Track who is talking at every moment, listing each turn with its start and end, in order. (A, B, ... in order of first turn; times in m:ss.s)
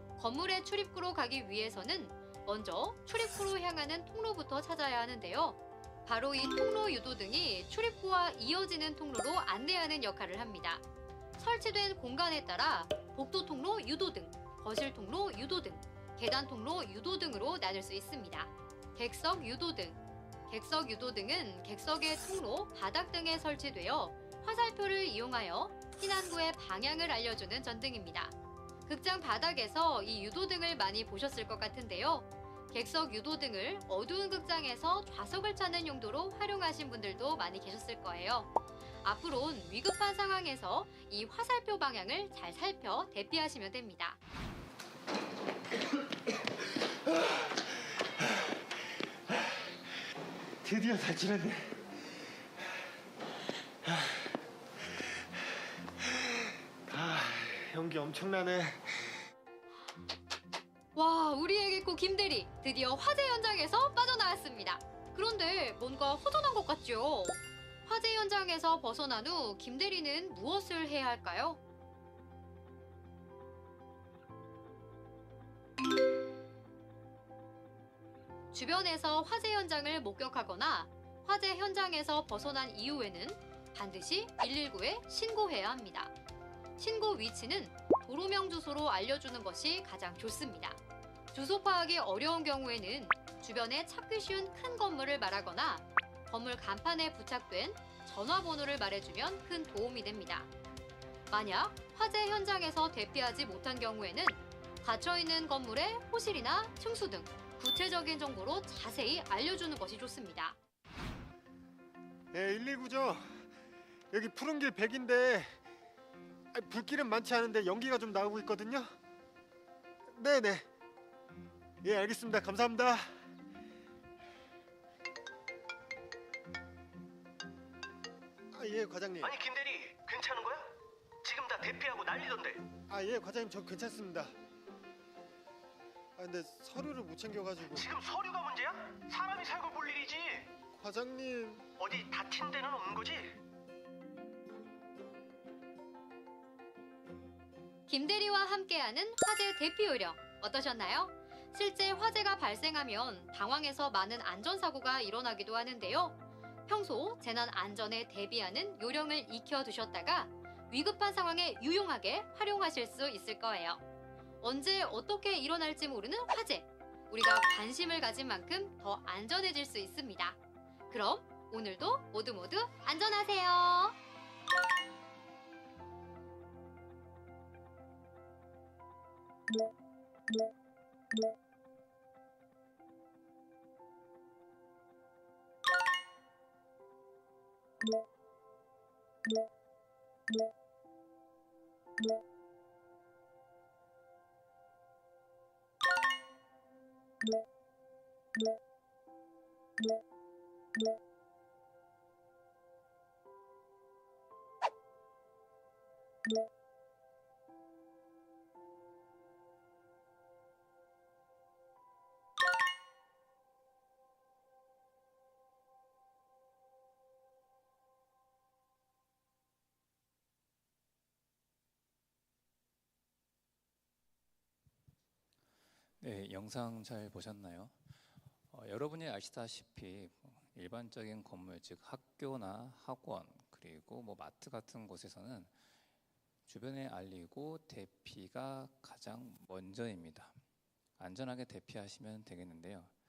0:00.2-0:10.8 A
0:11.4-0:28.3 A
0:28.8-0:38.5 A
0:39.0-0:44.2 A
0:50.6-0:51.9 B
0:53.8-0:54.4 B
0:56.0-0:59.1 B
1:00.9-1:11.6 A
1:18.5-1:26.1 A
1:26.8-1:30.8 A
1:31.3-1:40.5 A
1:41.3-1:50.6 A
1:52.3-1:53.4 B
1:54.1-1:55.6 B
1:56.5-1:58.9 B
2:00.1-2:00.6 B
2:01.8-2:03.1 B
2:08.5-2:09.4 B
2:09.2-2:10.7 C
2:11.2-2:12.6 C
2:12.9-2:14.3 B
2:16.2-2:17.9 B
2:17.7-2:20.5 C
2:20.7-2:21.6 B
2:21.8-2:23.4 C
2:27.9-2:36.2 A
2:36.7-2:43.8 A
2:44.4-2:50.4 A
2:50.9-2:54.0 A
3:46.0-3:47.7 D
3:48.5-3:55.5 D
3:56.5-4:00.3 D
4:01.0-4:02.9 D